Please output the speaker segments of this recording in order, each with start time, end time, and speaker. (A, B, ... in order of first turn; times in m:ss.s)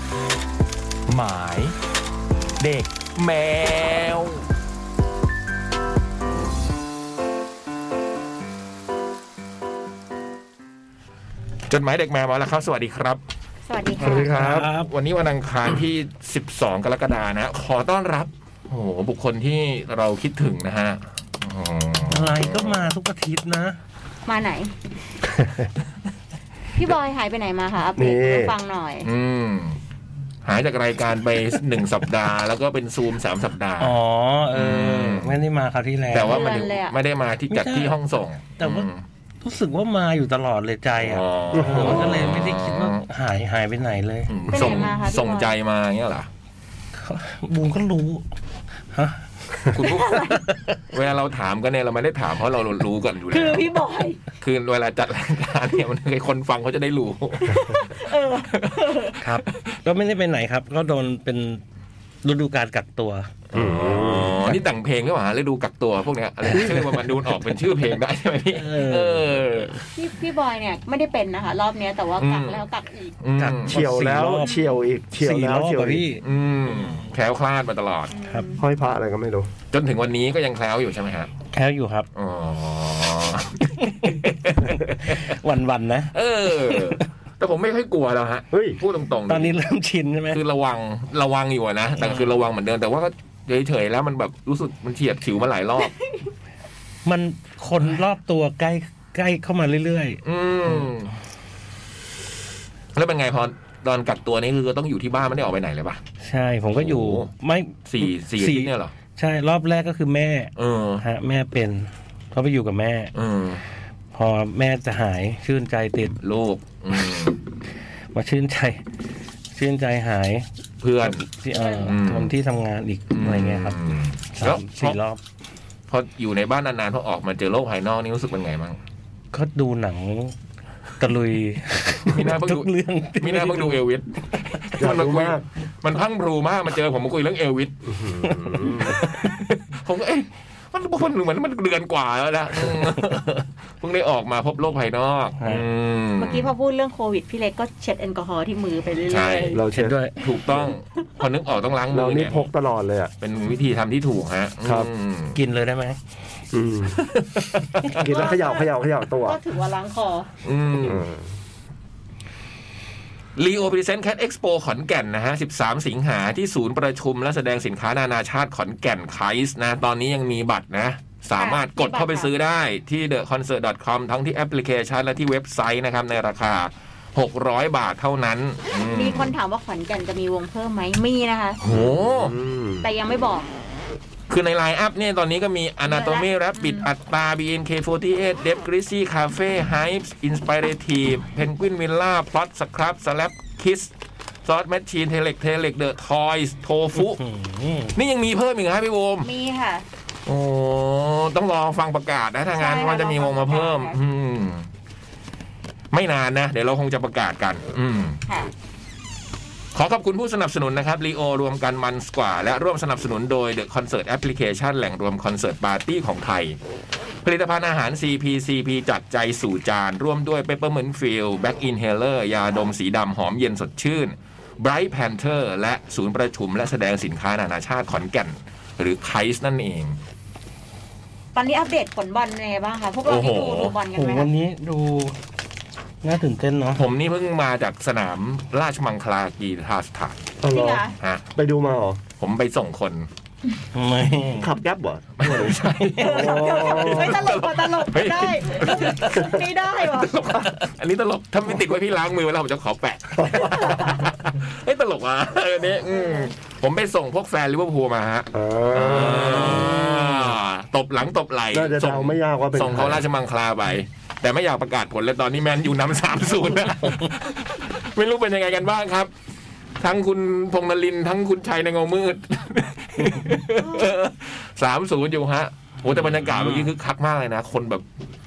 0:01.1-0:01.8 A
0:02.6-0:04.4 A
0:11.7-0:13.2 A
0:13.7-0:14.3 B
0:14.0-0:14.7 C
0:14.0-0:14.9 D
0:14.2-0:22.9 A
0:22.1-0:23.8 D
0:24.3-0:24.7 B
0:25.2-0:25.7 C
0:26.7-0:29.1 B
0:28.0-0:28.5 C
0:29.0-0:29.8 A
0:30.4-0:34.0 A
0:33.8-0:36.5 D
0:34.5-0:35.4 A
0:36.1-0:39.0 A
0:36.2-0:37.0 B
0:37.5-0:38.0 D
0:38.6-0:38.9 D
0:39.4-0:44.7 D
0:41.0-0:43.0 A
0:41.5-0:42.1 C
0:44.3-0:46.3 A
0:44.5-0:45.5 B
0:47.0-0:48.2 D
0:48.9-0:49.8 D
0:49.7-0:53.7 A
0:49.8-0:50.4 B
0:50.4-0:50.8 D
0:53.3-0:54.2 B
0:54.4-0:57.9 A
0:57.4-0:59.2 B
0:58.5-0:59.0 A
0:59.2-1:01.6 D
0:59.5-0:59.7 A
1:02.2-1:04.6 D
1:03.5-1:09.8 A
1:03.5-1:04.4 C
1:06.5-1:07.0 D
1:08.5-1:09.9 D
1:09.9-1:13.1 B
1:12.2-1:12.6 A
1:13.2-1:13.8 A
1:13.4-1:14.5 D
1:13.7-1:16.1 C
1:15.2-1:17.1 D
1:16.2-1:18.1 A
1:18.1-1:18.6 B
1:18.6-1:19.5 C
1:19.7-1:21.3 A
1:21.5-1:22.1 D
1:22.1-1:25.4 A
1:23.9-1:27.0 D
1:26.1-1:29.6 A
1:28.5-1:28.8 C
1:29.3-1:30.4 D
1:30.3-1:35.9 A
1:32.0-1:32.3 D
1:37.0-1:40.2 D
1:40.2-1:41.1 A
1:42.9-1:46.0 A
1:46.2-1:53.1 D
1:46.7-1:47.3 A
1:47.9-1:48.9 A
1:50.6-1:51.0 A
1:53.1-1:53.6 A
1:54.1-1:56.2 D
1:56.2-1:57.4 A
1:58.1-1:58.8 D
1:59.5-2:00.4 D
2:00.8-2:01.2 A
2:01.1-2:03.8 D
2:01.6-2:01.9 B
2:01.8-2:02.3 A
2:03.1-2:05.0 A
2:04.3-2:05.2 D
2:05.9-2:08.8 A
2:09.3-2:10.3 D
2:11.0-2:13.8 D
2:12.1-2:17.7 A
2:14.8-2:15.4 C
2:17.8-2:19.0 C
2:18.2-2:18.9 D
2:18.8-2:26.5 A
2:22.6-2:23.2 D
2:26.2-2:29.6 B
2:29.1-2:29.6 A
2:29.5-2:30.0 C
2:29.7-2:30.2 D
2:30.2-2:32.5 A
2:31.9-2:33.1 C
2:33.2-2:35.4 A
2:35.3-2:36.0 D
2:36.5-2:37.0 C
2:37.1-2:38.2 A
2:37.9-2:39.4 C
2:38.0-2:38.7 B
2:39.2-2:40.3 B
2:40.4-2:41.0 A
2:40.8-2:41.3 C
2:43.4-2:59.3 A
2:51.4-2:52.3 B
2:58.9-3:01.6 B
3:01.6-3:02.3 A
3:01.7-3:02.9 C
3:02.8-3:03.5 B
3:04.3-3:13.9 A
3:05.9-3:06.9 B
3:14.4-3:17.2 A
3:17.0-3:18.0 D
3:18.0-3:19.3 A
3:19.2-3:19.9 B
3:20.2-3:24.7 A
3:22.6-3:24.0 B
3:25.9-3:28.2 A
3:29.8-3:36.6 A
3:37.2-3:50.0 A
3:51.3-3:54.3 B
3:53.0-3:53.8 A
3:53.9-3:55.2 D
3:56.0-3:56.8 D
3:56.8-4:00.2 A
4:00.4-4:00.8 C
4:00.5-4:01.0 B
4:01.3-4:02.0 C
4:02.2-4:03.1 A
4:03.7-4:04.5 D
4:04.4-4:07.2 C
4:05.2-4:29.1 A
4:05.5-4:06.2 D
4:06.0-4:10.1 B
4:13.2-4:14.0 C
4:13.5-4:13.9 B
4:15.9-4:16.3 B
4:18.3-4:20.3 C
4:21.5-4:23.0 C
4:29.8-4:37.8 A
4:33.6-4:33.9 B
4:35.8-4:36.7 D